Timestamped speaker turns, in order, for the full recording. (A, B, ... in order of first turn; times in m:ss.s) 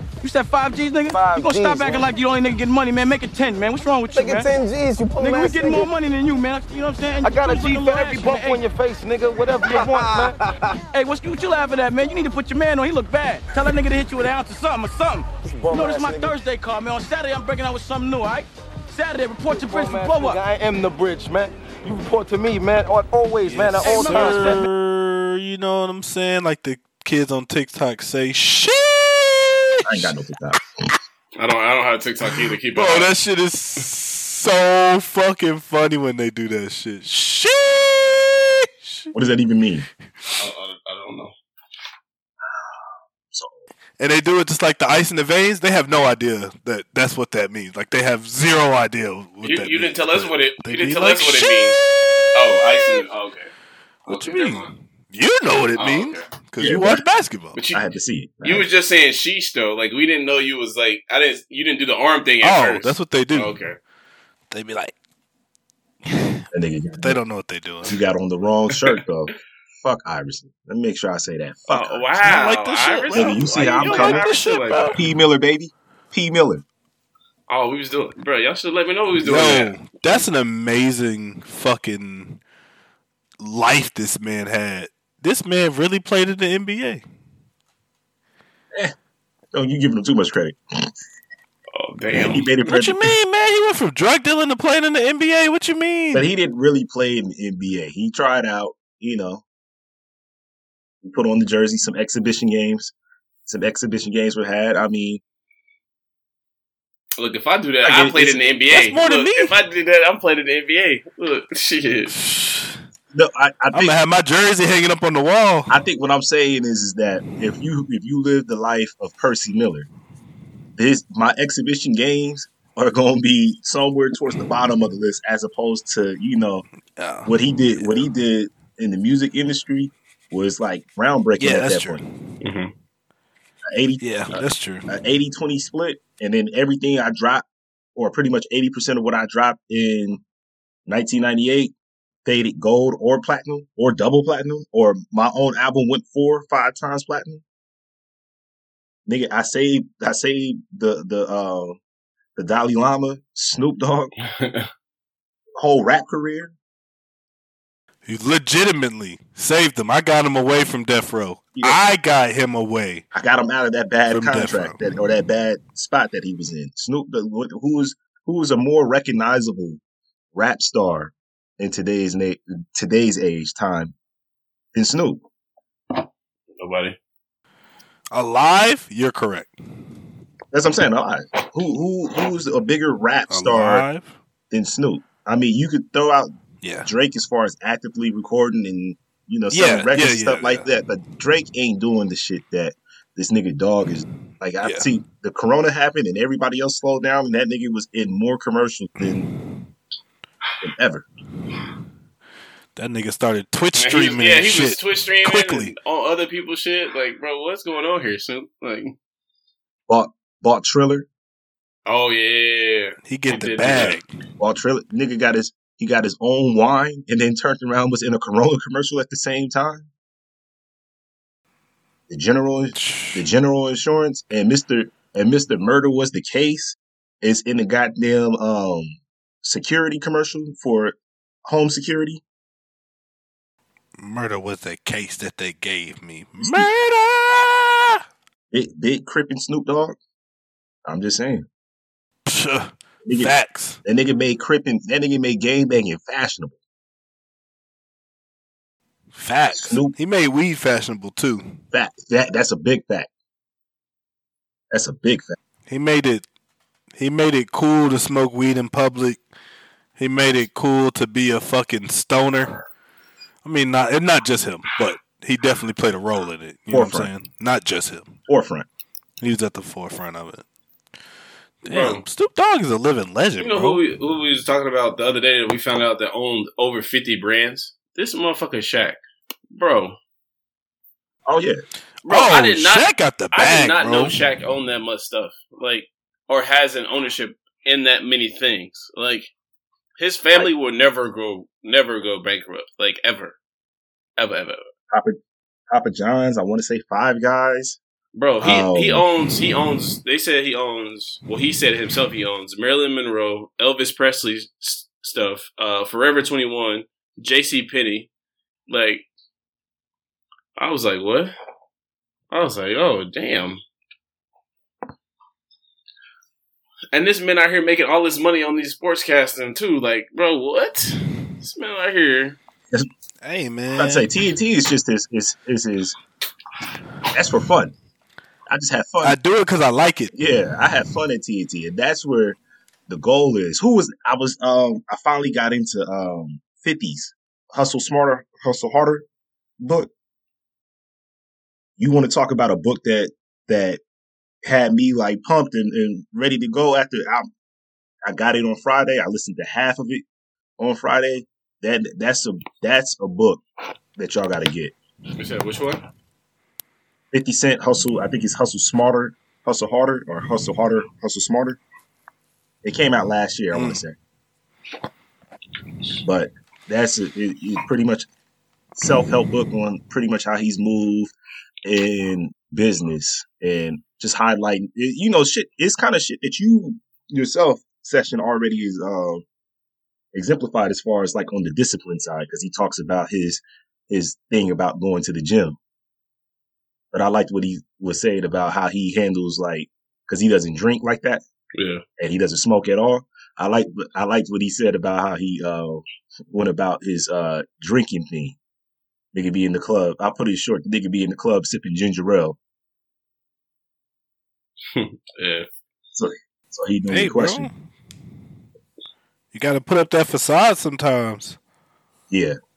0:00.2-0:04.5 A
0:01.1-0:02.1 B
0:04.1-0:05.9 B
0:05.2-0:08.6 A
0:07.2-0:10.8 B
0:09.5-0:10.3 A
0:10.9-0:20.4 A
0:15.4-0:16.4 B
0:19.5-0:24.6 B
0:23.4-0:30.1 C
0:23.8-0:24.6 A
0:29.8-0:30.6 D
0:31.4-0:33.1 E
0:32.2-0:39.1 C
0:39.1-0:39.9 D
0:40.4-0:41.3 E
0:42.5-0:42.8 D
0:43.3-0:43.6 D
0:44.0-0:51.8 C
0:49.4-0:51.8 E
0:52.3-0:53.5 E
0:54.0-0:57.6 C
0:54.1-0:54.7 E
0:55.8-0:56.3 E
0:56.6-0:57.0 D
0:57.5-0:57.8 E
0:57.7-0:58.7 D
0:58.4-1:03.8 E
1:02.4-1:03.5 C
1:04.5-1:05.0 C
1:06.0-1:06.4 C
1:06.5-1:07.2 D
1:07.0-1:08.0 C
1:07.9-1:12.1 D
1:11.7-1:15.0 E
1:12.2-1:15.0 C
1:13.1-1:14.2 D
1:14.9-1:16.6 D
1:17.5-1:19.9 E
1:19.2-1:22.4 C
1:23.4-1:27.0 C
1:29.5-1:30.6 D
1:31.7-1:32.5 E
1:32.1-1:33.2 D
1:32.6-1:36.3 C
1:36.1-1:39.4 D
1:41.0-1:42.9 D
1:43.5-1:45.2 D
1:47.2-1:52.1 E
1:47.8-1:48.4 D
1:48.7-1:49.6 C
1:52.1-1:52.8 C
1:53.1-1:54.0 D
1:53.7-1:55.7 C
1:55.7-1:59.9 D
2:00.8-2:06.6 D
2:07.0-2:07.9 C
2:07.2-2:12.0 D
2:11.4-2:12.1 C
2:12.4-2:12.7 E
2:13.7-2:17.4 D
2:14.0-2:14.9 C
2:17.9-2:20.2 D
2:20.9-2:21.7 D
2:22.2-2:27.4 D
2:29.1-2:31.8 D
2:32.4-2:34.1 D
2:34.2-2:34.7 E
2:35.6-2:36.5 D
2:38.1-2:43.0 C
2:43.1-2:49.8 D
2:44.1-2:44.8 C
2:50.3-2:53.9 D
2:54.7-2:55.2 D
2:56.6-2:57.0 E
2:58.1-2:59.5 C
3:00.5-3:03.9 D
3:03.3-3:04.1 C
3:04.5-3:06.3 D
3:06.6-3:06.9 C
3:06.8-3:19.3 D
3:09.5-3:10.7 C
3:14.6-3:14.9 C
3:20.6-3:21.1 D
3:22.8-3:25.8 C
3:23.8-3:28.9 E
3:29.9-3:31.1 D
3:31.9-3:34.0 E
3:33.0-3:34.1 C
3:34.4-3:39.9 D
3:42.1-3:52.2 D
3:42.8-3:43.2 C
3:54.0-3:58.0 C
3:56.4-3:56.7 D
3:58.5-4:00.0 D
4:00.8-4:01.4 D
4:02.3-4:03.8 C
4:03.0-4:03.3 D
4:03.8-4:06.6 D
4:09.1-4:11.6 C
4:09.6-4:09.9 D
4:11.7-4:13.1 D
4:14.7-4:15.4 D
4:15.7-4:16.2 C
4:16.9-4:19.2 C
4:20.0-4:22.6 C
4:23.4-4:28.1 C
4:26.7-4:27.1 D
4:28.3-4:28.7 D
4:29.2-4:30.4 C
4:31.6-4:33.8 C
4:31.7-4:32.0 E
4:33.4-4:39.0 E
4:39.5-4:40.0 E
4:41.3-4:41.6 D
4:42.0-4:44.2 C
4:42.0-4:49.3 E
4:50.0-4:53.4 E
4:54.2-4:54.6 E
4:54.9-4:55.2 D
4:55.7-4:57.8 D
4:58.1-5:08.1 E
4:58.4-4:59.0 D
5:08.7-5:09.1 E
5:10.6-5:11.3 E
5:12.3-5:13.6 E
5:16.9-5:22.4 E
5:23.2-5:24.1 C
5:23.8-5:25.9 D
5:27.1-5:27.7 D
5:28.5-5:29.2 D
5:29.0-5:30.1 C
5:30.1-5:32.4 D
5:32.9-5:39.1 D
5:39.6-5:39.9 D
5:41.8-5:43.8 D
5:44.4-5:47.3 D
5:48.0-5:50.0 D
5:50.6-5:53.4 D
5:54.0-5:54.7 D
5:55.2-5:55.8 E
5:57.1-6:01.6 D
6:02.6-6:04.0 D
6:03.5-6:03.8 C
6:06.0-6:08.1 D
6:08.8-6:11.1 D
6:11.6-6:19.2 D
6:20.1-6:25.6 D
6:26.9-6:31.2 D
6:31.6-6:31.8 E
6:32.0-6:38.4 D
6:39.1-6:42.4 D
6:44.7-6:45.5 E
6:45.9-6:47.5 D
6:46.9-6:47.5 C
6:49.3-6:51.4 C
6:52.1-6:52.4 D